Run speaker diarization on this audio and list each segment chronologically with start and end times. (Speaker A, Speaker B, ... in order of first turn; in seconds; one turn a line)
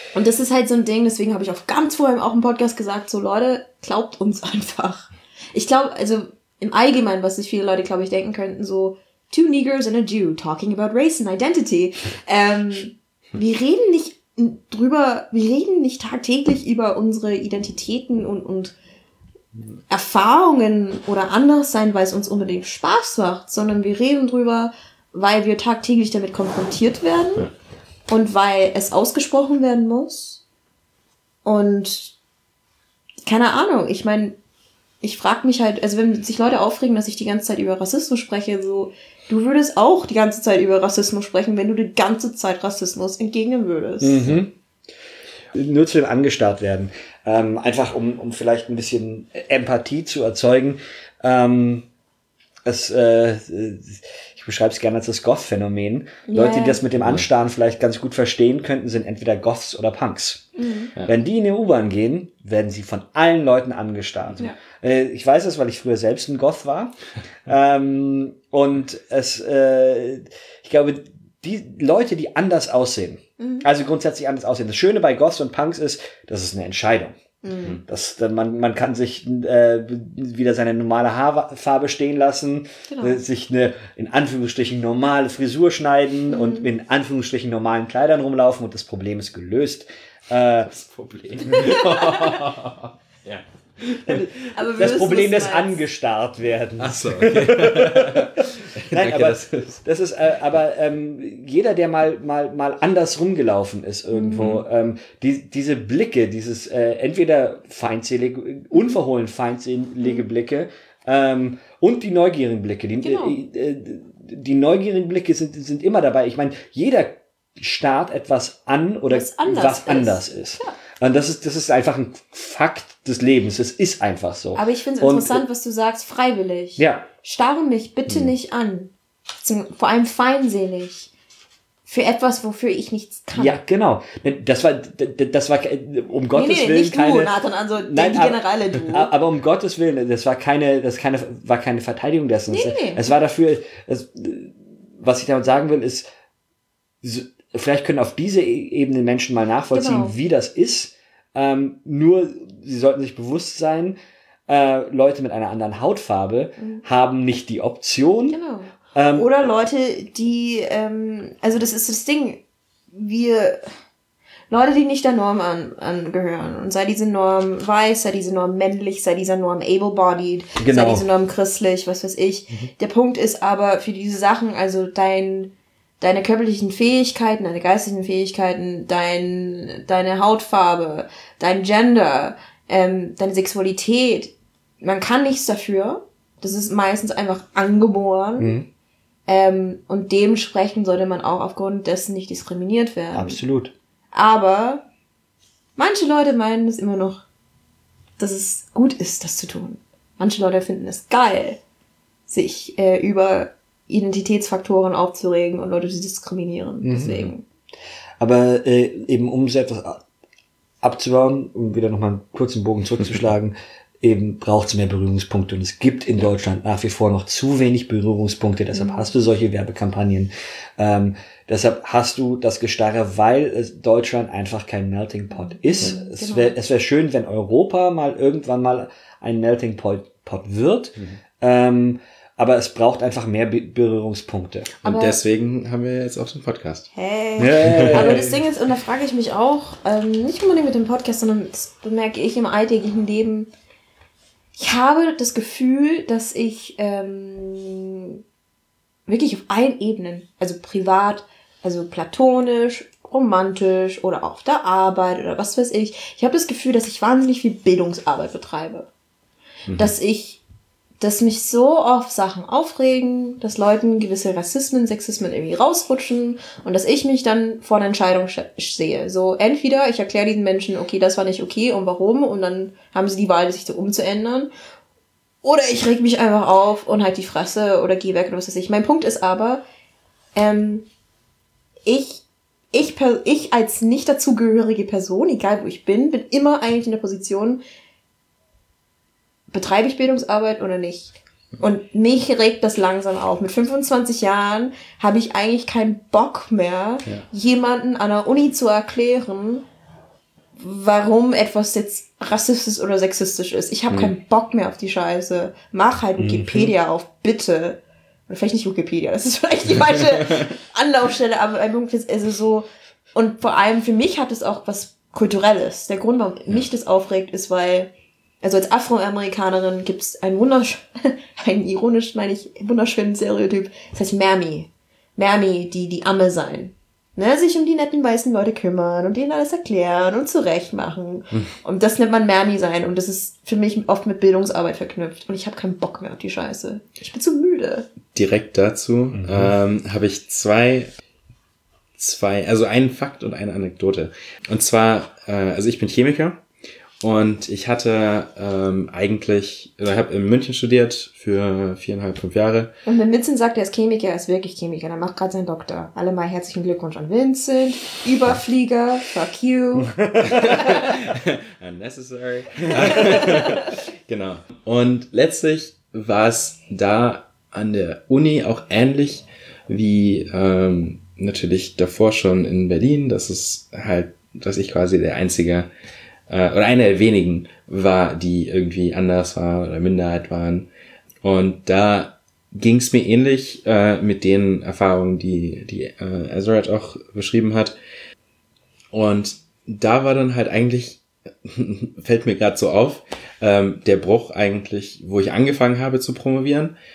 Speaker A: 0.1-18.7
Speaker A: 19.9-27.5
Speaker A: 28.1-30.4
Speaker A: 31.4-32.1
Speaker A: 33.2-34.4
Speaker A: 35.0-44.3
Speaker B: 44.0-44.5
Speaker B: 45.5-51.9
Speaker B: 52.6-60.5
Speaker A: 56.3-56.8
Speaker C: 57.0-57.2
Speaker A: 60.6-60.9
Speaker B: 61.0-66.9
Speaker B: 67.5-77.2
Speaker A: 73.4-73.7
Speaker A: 77.4-77.8
Speaker B: 77.8-90.7
Speaker A: 82.9-83.2
Speaker A: 86.3-86.7
Speaker C: 90.6-94.3
Speaker A: 91.5-92.4
Speaker B: 94.1-98.4
Speaker A: 94.5-95.8
Speaker C: 96.8-99.8
Speaker B: 98.9-125.4
Speaker A: 104.1-104.5
Speaker C: 104.3-104.6
Speaker A: 113.0-113.4
Speaker A: 119.1-120.7
Speaker A: 124.5-128.9
Speaker B: 126.8-127.0
Speaker A: 129.4-131.1
Speaker A: 131.9-133.6
Speaker B: 133.3-146.1
Speaker A: 136.3-139.1
Speaker A: 142.5-143.1
Speaker B: 147.0-153.9
Speaker A: 149.7-150.2
Speaker B: 154.5-158.4
Speaker A: 156.6-156.8
Speaker A: 158.3-162.4
Speaker B: 158.9-159.3
Speaker A: 162.9-163.7
Speaker A: 164.5-188.6
Speaker B: 170.6-171.0
Speaker B: 188.4-188.7
Speaker A: 189.3-193.4
Speaker B: 193.1-193.7
Speaker A: 194.1-194.8
Speaker A: 195.8-197.2
Speaker A: 198.2-201.6
Speaker A: 202.3-207.4
Speaker B: 206.8-207.3
Speaker B: 208.2-210.0
Speaker B: 210.8-234.7
Speaker A: 218.7-219.1
Speaker A: 225.4-226.6
Speaker C: 234.8-236.9
Speaker A: 234.8-235.2
Speaker A: 236.9-243.5
Speaker B: 237.4-238.4
Speaker C: 237.6-238.2
Speaker A: 244.6-248.2
Speaker A: 249.1-258.9
Speaker C: 259.7-259.9
Speaker A: 259.8-260.4
Speaker A: 261.0-274.5
Speaker A: 275.4-279.6
Speaker A: 280.3-280.9
Speaker A: 281.8-287.6
Speaker A: 289.5-299.6
Speaker A: 300.6-317.9
Speaker B: 306.2-306.7
Speaker A: 318.4-337.9
Speaker C: 338.1-340.9
Speaker B: 339.1-339.5
Speaker C: 342.0-346.4
Speaker C: 347.0-352.7
Speaker A: 352.9-360.9
Speaker B: 359.7-360.7
Speaker C: 360.2-375.7
Speaker A: 363.0-363.6
Speaker C: 376.3-380.7
Speaker C: 381.2-387.8
Speaker C: 388.9-396.7